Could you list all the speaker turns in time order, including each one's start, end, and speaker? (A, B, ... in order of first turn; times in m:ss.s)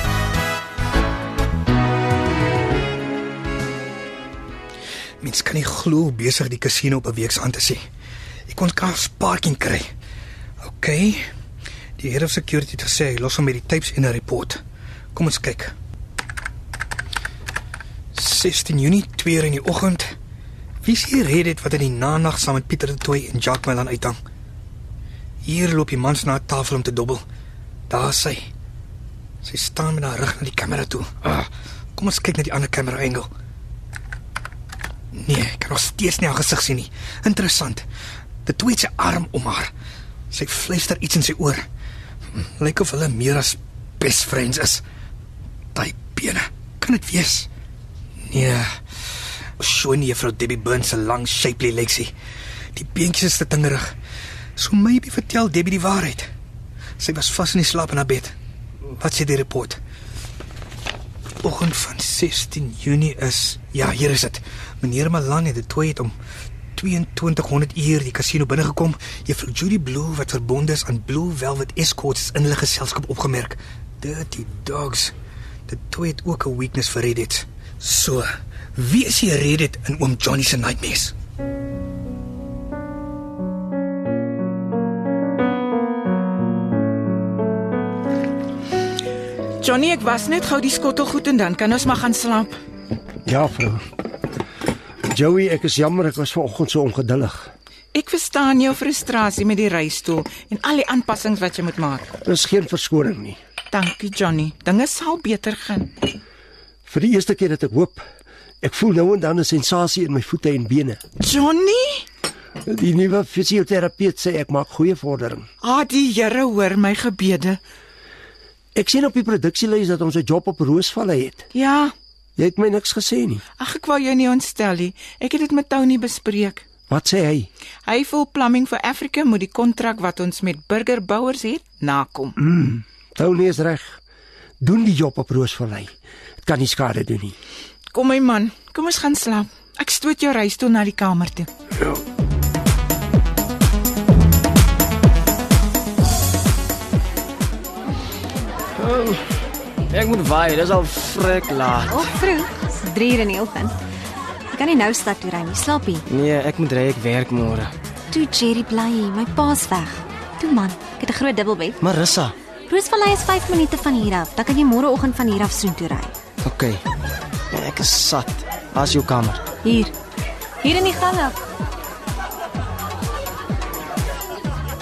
0:05.2-0:07.8 A
0:08.5-0:09.9 A
0:10.6-0:11.3 A
0:12.0-0:14.6 A
0:15.1-0:15.7 A
0:18.1-0:20.2 A
0:20.8-0:24.2 A
0:25.4-0:27.2 A
0:27.9-0:28.5 A
0:29.4-0:33.3 A
0:35.1-0:37.8 A
0:38.4-0:39.7 A
0:40.3-0:41.6 A
0:42.4-0:44.8 A
0:45.7-0:47.5 A
0:48.3-0:48.7 A
0:49.6-0:52.1 A
0:52.7-0:53.9 A
0:54.6-0:56.3 A
0:57.0-0:58.3 A
0:59.0-0:59.8 A
1:01.4-1:06.2 A
1:06.7-1:15.1 A
1:15.7-1:21.1 A
1:29.6-1:32.6 B
1:33.2-1:33.8 C
1:35.1-1:37.5 C
1:37.9-1:42.1 B
1:42.2-1:43.4 C
1:43.7-1:45.9 B
1:46.9-1:48.0 C
1:48.6-1:51.0 C
1:51.2-1:52.1 B
1:52.7-1:55.5 C
1:55.6-1:57.6 B
1:58.7-2:01.4 C
2:01.5-2:01.9 B
2:02.4-2:03.4 C
2:03.6-2:06.6 B
2:06.9-2:07.5 C
2:07.8-2:12.4 B
2:12.4-2:14.0 C
2:14.6-2:15.9 C
2:16.4-2:17.4 C
2:17.9-2:21.5 B
2:28.8-2:29.2 D
2:29.9-2:32.1 D
2:31.9-2:33.8 E
2:34.5-2:36.1 E
2:36.1-2:37.7 D
2:38.1-2:41.8 E
2:41.8-2:42.3 D
2:42.7-2:46.2 E
2:46.4-2:46.8 D
2:47.5-2:49.4 D
2:49.6-2:49.9 E
2:50.6-2:51.4 E